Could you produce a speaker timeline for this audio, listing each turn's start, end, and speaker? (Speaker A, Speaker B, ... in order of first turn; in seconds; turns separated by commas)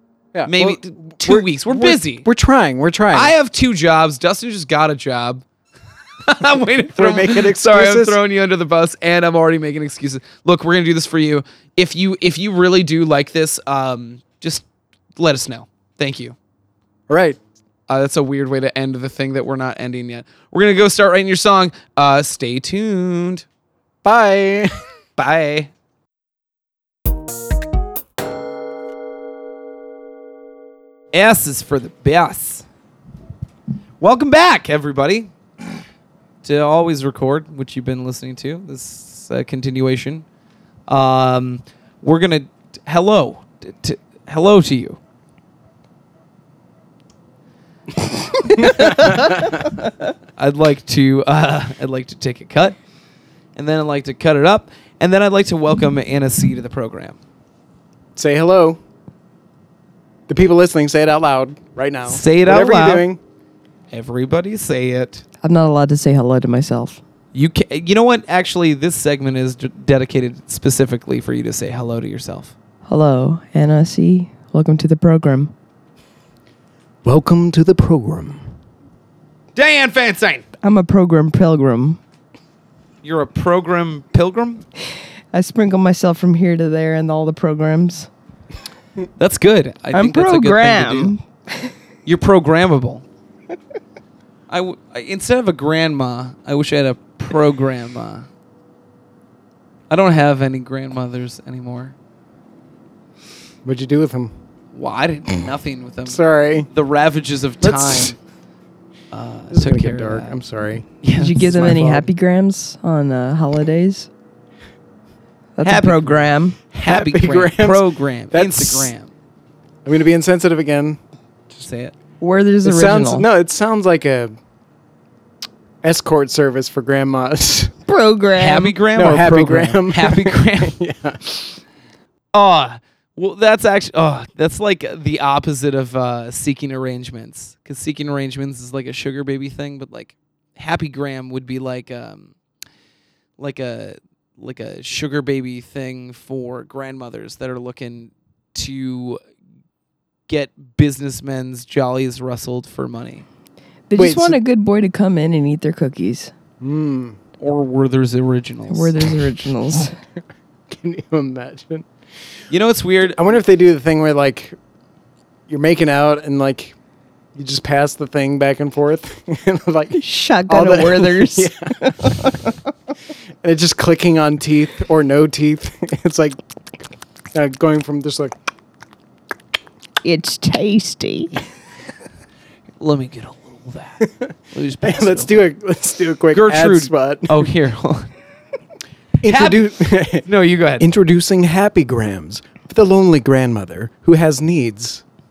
Speaker A: 0.3-3.3, Speaker B: 0.5-2.2, Speaker B: 3.1-5.4, Speaker B: 6.2-14.7, Speaker A: 7.0-8.2, Speaker B: 15.2-16.4, Speaker A: 17.1-17.4, Speaker B: 17.9-23.4, Speaker A: 24.0-24.7, Speaker B: 25.2-25.7, Speaker B: 31.1-32.6, Speaker B: 34.0-35.3, Speaker B: 36.4-40.2, Speaker B: 40.9-45.0, Speaker B: 48.6-49.4, Speaker B: 50.4-52.8, Speaker B: 53.5-57.2, Speaker A: 58.1-58.8, Speaker A: 60.3-63.2, Speaker B: 62.1-63.1, Speaker B: 63.9-65.2, Speaker C: 65.4-67.0, Speaker B: 67.3-72.5, Speaker C: 72.8-75.5, Speaker A: 77.0-78.5, Speaker B: 79.5-80.4, Speaker C: 80.6-82.0, Speaker B: 83.0-84.6, Speaker C: 85.3-88.1, Speaker B: 89.2-91.1, Speaker C: 89.9-91.7, Speaker B: 92.0-93.0, Speaker B: 94.5-98.3, Speaker B: 99.9-101.9, Speaker A: 103.6-104.3, Speaker B: 104.7-108.2, Speaker A: 106.1-106.7, Speaker A: 107.6-108.1, Speaker B: 109.1-110.4, Speaker A: 109.5-112.1, Speaker B: 111.0-111.6, Speaker C: 111.2-114.1, Speaker C: 115.5-116.6, Speaker B: 115.6-119.1, Speaker A: 116.8-118.9, Speaker A: 119.8-121.0, Speaker B: 121.5-121.9, Speaker C: 122.2-123.3, Speaker A: 122.6-124.3, Speaker A: 125.8-127.7, Speaker C: 127.9-128.7, Speaker B: 128.3-130.8, Speaker A: 128.9-131.4, Speaker B: 132.3-142.3, Speaker B: 143.4-149.2, Speaker B: 150.3-153.2, Speaker C: 153.9-156.3, Speaker A: 153.9-154.4, Speaker A: 156.6-157.2, Speaker B: 157.4-159.1, Speaker C: 158.7-159.9, Speaker A: 160.7-161.9, Speaker B: 162.5-163.2, Speaker A: 163.1-164.6, Speaker A: 165.5-166.7, Speaker A: 167.3-172.3, Speaker C: 169.9-172.5, Speaker A: 173.4-176.4, Speaker A: 177.3-178.3, Speaker C: 180.0-181.4, Speaker B: 182.8-185.5, Speaker A: 184.0-184.3, Speaker A: 184.8-187.5, Speaker B: 186.3-188.1, Speaker A: 189.2-190.3, Speaker B: 189.2-190.9, Speaker A: 190.8-195.0